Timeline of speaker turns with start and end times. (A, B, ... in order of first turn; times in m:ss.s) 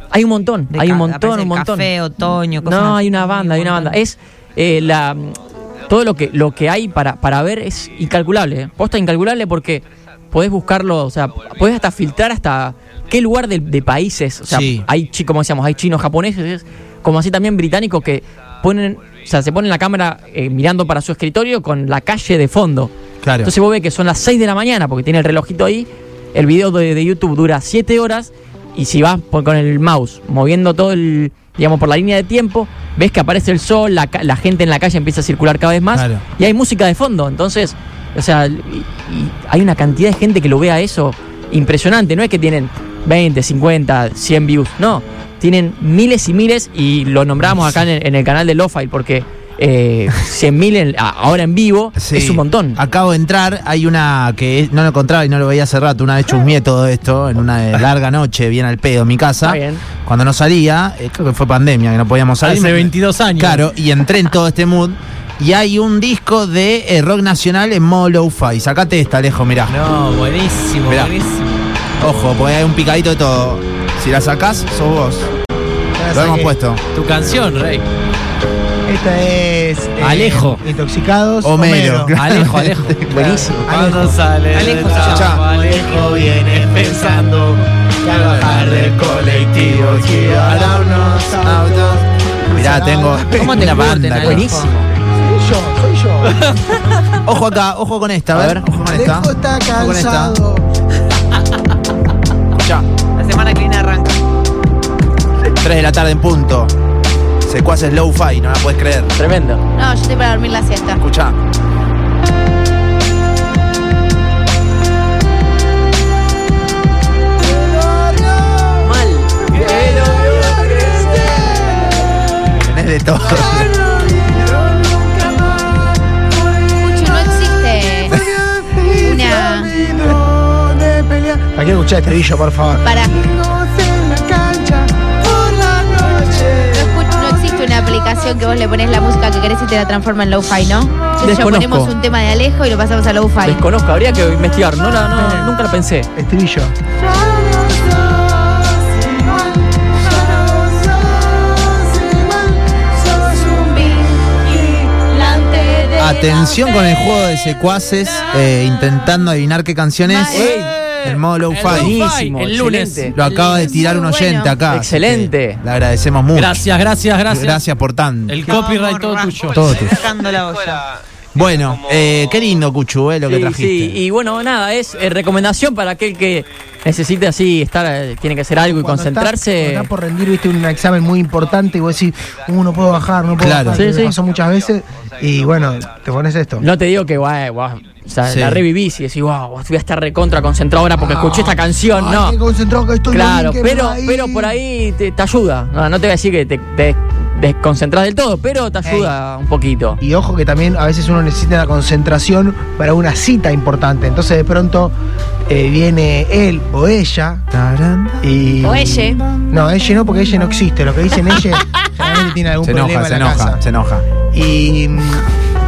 0:00.1-0:01.9 A
0:00.7-0:04.0 B
0:02.6-0:22.9 A
0:14.5-0:14.9 C
0:23.2-0:23.5 C
0:23.4-0:52.8 A
0:35.9-0:36.2 C
0:52.0-1:09.8 C
0:59.4-0:59.9 A
1:02.4-1:03.7 D
1:09.7-1:11.6 D
1:10.9-1:11.2 C
1:12.0-1:15.3 C
1:16.0-1:16.6 E
1:16.1-1:16.8 C
1:16.9-1:17.8 D
1:18.9-1:22.2 E
1:20.0-1:20.6 D
1:21.4-1:23.7 C
1:22.1-1:27.3 D
1:23.3-1:33.8 E
1:25.1-1:25.5 C
1:28.0-1:30.7 D
1:28.2-1:32.0 C
1:32.6-1:34.6 C
1:33.4-1:34.9 B
1:34.3-1:34.6 A
1:35.1-1:36.4 E
1:37.3-1:40.4 C
1:38.9-1:40.7 E
1:42.5-1:42.9 C
1:43.2-1:44.2 B
1:45.6-1:46.7 C
1:47.4-1:49.1 C
1:49.2-1:49.6 A
1:49.8-1:51.0 F
1:51.0-1:51.4 C
1:57.7-1:58.6 E
1:58.8-2:01.7 A
1:59.5-2:01.9 E
2:02.6-2:03.7 C
2:03.2-2:07.2 E
2:06.8-2:08.1 F
2:08.1-2:18.1 E
2:09.0-2:09.7 F
2:12.8-2:13.2 F
2:16.7-2:23.6 F
2:21.2-2:21.9 A
2:23.4-2:26.1 A
2:25.1-2:25.6 E
2:26.2-2:34.9 E
2:33.7-2:34.1 F
2:34.9-2:37.0 F
2:36.0-2:42.0 C
2:40.1-2:40.4 F
2:40.3-2:40.8 A
2:40.4-2:43.1 D
2:41.6-2:43.2 A
2:43.1-2:46.6 C
2:43.2-2:44.5 F
2:44.7-2:45.6 A
2:46.3-2:47.6 D
2:47.3-2:48.4 C
2:48.3-2:50.4 D
2:48.4-2:50.8 B
2:49.5-2:50.0 C
2:51.3-2:54.0 C
2:51.6-2:52.1 D
2:53.3-2:59.9 A
2:58.6-3:06.7 E
3:03.4-3:03.8 C
3:03.7-3:04.2 A
3:06.6-3:12.4 A
3:08.3-3:08.7 C
3:11.0-3:14.6 E
3:13.1-3:20.0 A
3:18.8-3:19.1 E
3:20.0-3:25.0 E
3:25.5-3:27.4 E
3:27.5-3:28.2 C
3:28.2-3:29.0 E
3:28.9-3:29.2 C
3:29.5-3:33.6 E
3:32.6-3:34.1 C
3:34.3-3:35.3 E